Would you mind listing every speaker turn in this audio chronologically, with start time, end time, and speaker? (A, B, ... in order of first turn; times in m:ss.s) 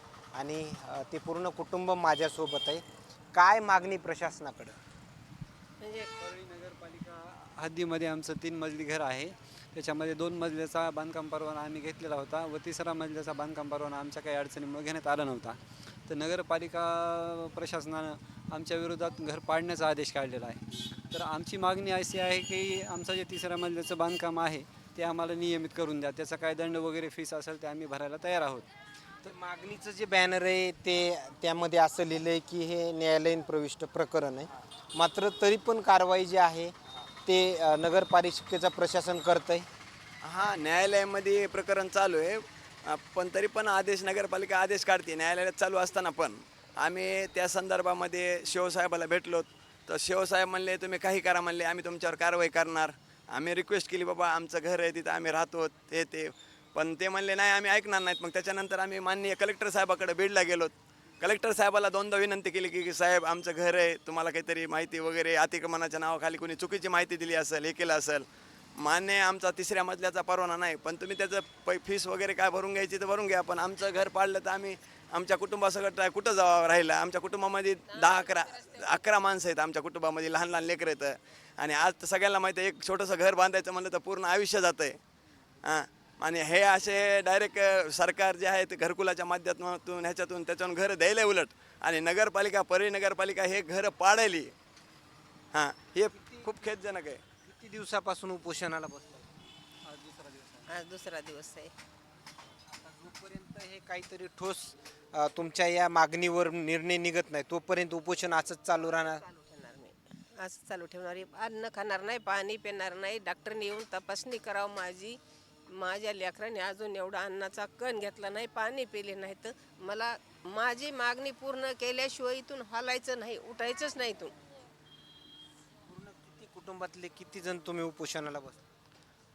0:00.3-0:04.8 A
0:05.8-0:06.1 B
0:06.2-0:28.7 C
0:29.2-0:39.7 A
0:40.2-1:08.2 D
1:08.8-1:25.0 D
1:17.9-1:19.0 B
1:25.6-1:34.5 D
1:35.5-1:37.2 D
1:36.1-1:36.5 A
1:37.4-1:39.3 A
1:39.8-1:40.7 C
1:40.7-1:41.7 B
1:42.7-1:49.2 A
1:48.8-2:04.3 B
2:05.9-2:08.6 A